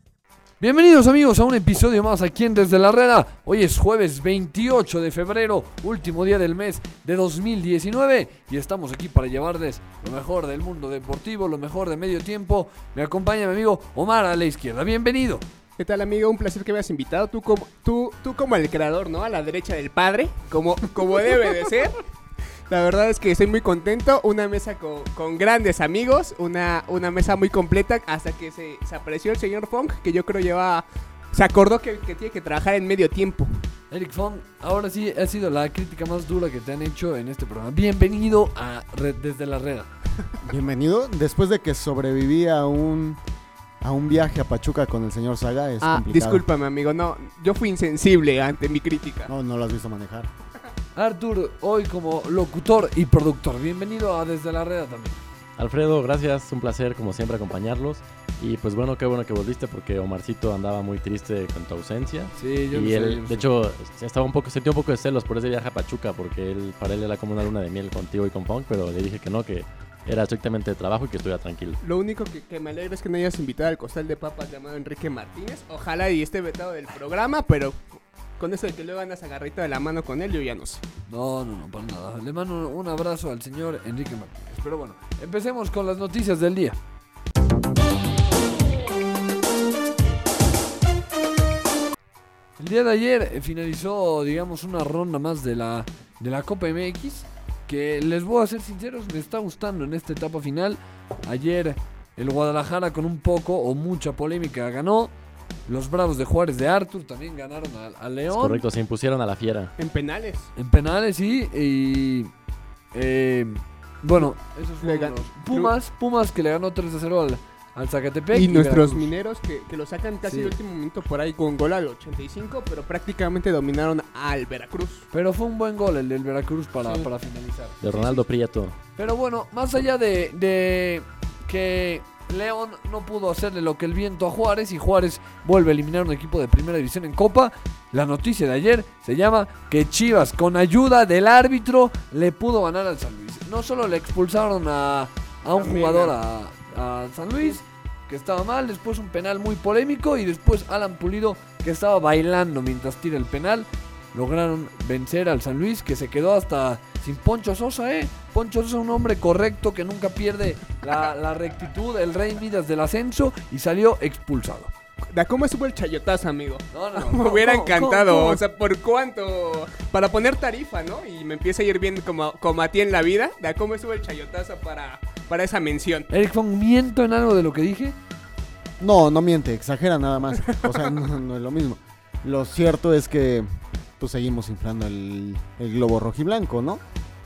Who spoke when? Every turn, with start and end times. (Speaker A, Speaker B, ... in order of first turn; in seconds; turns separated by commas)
Speaker A: 0.6-15.5, Speaker B: 15.8-22.0, Speaker B: 22.7-33.7, Speaker A: 33.9-39.9, Speaker C: 40.4-43.2, Speaker C: 43.8-46.5, Speaker B: 45.8-49.3, Speaker C: 49.3-50.3, Speaker A: 51.0-55.2, Speaker D: 55.6-71.8, Speaker A: 62.4-63.5, Speaker B: 71.8-77.9, Speaker B: 78.4-80.8, Speaker A: 81.1-86.8, Speaker A: 92.6-105.1, Speaker A: 105.7-108.7, Speaker D: 108.3-109.7, Speaker B: 109.8-110.5, Speaker A: 110.6-112.3, Speaker A: 112.9-119.1, Speaker B: 114.2-115.8, Speaker B: 118.3-125.1, Speaker A: 120.2-120.5, Speaker A: 125.1-127.8, Speaker B: 126.8-127.1, Speaker B: 127.8-128.3, Speaker D: 127.8-128.8, Speaker A: 129.0-164.7, Speaker B: 145.5-146.2, Speaker B: 165.1-176.1, Speaker A: 166.7-168.4, Speaker A: 176.1-178.0, Speaker C: 178.8-186.8